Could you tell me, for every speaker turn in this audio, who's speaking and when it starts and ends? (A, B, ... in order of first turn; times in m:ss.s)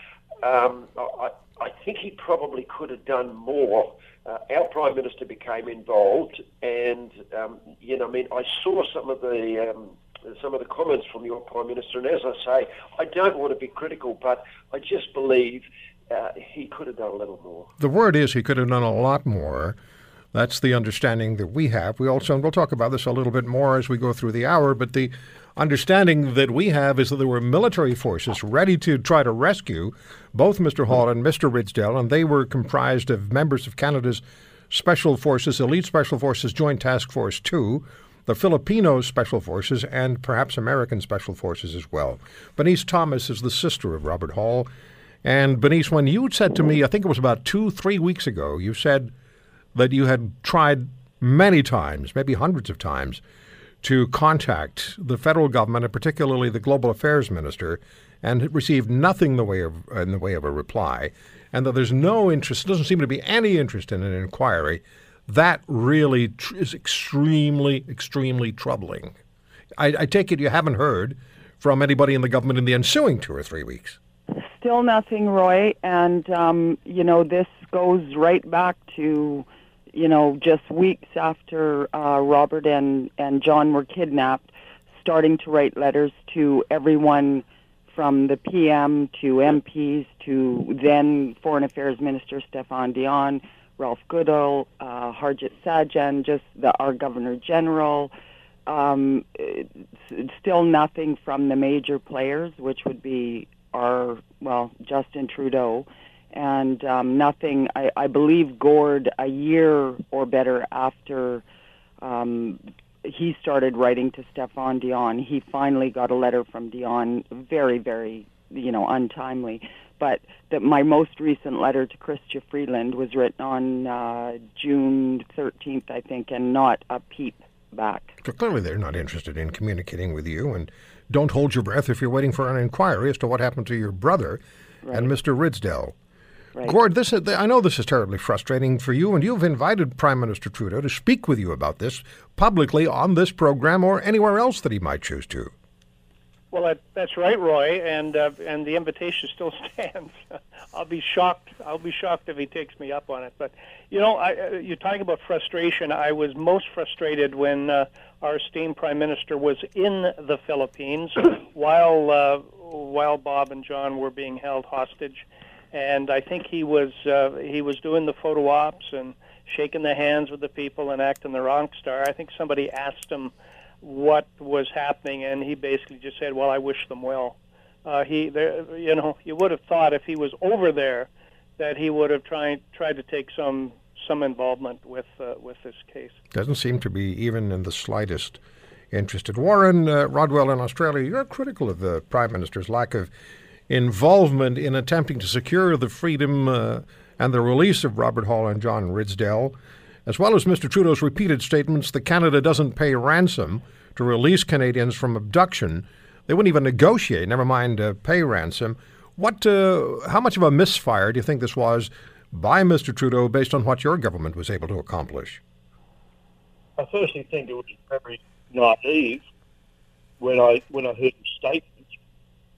0:00.4-0:17.7 A
0:17.8-0:19.8 B
0:20.3-0:44.7 B
0:45.2-0:49.1 B
0:49.7-0:53.2 B
0:53.8-1:09.1 B
1:09.8-1:14.0 B
1:14.3-1:38.1 C
1:38.7-1:51.4 C
1:52.0-2:08.1 C
2:08.2-2:14.4 B
2:14.8-2:15.1 C
2:14.9-2:15.9 B
2:16.6-2:25.5 B
2:26.5-3:06.2 D
3:06.3-3:08.4 B
3:08.9-3:13.1 B
3:13.7-3:35.4 B
3:36.8-3:39.2 E
3:40.2-3:41.9 E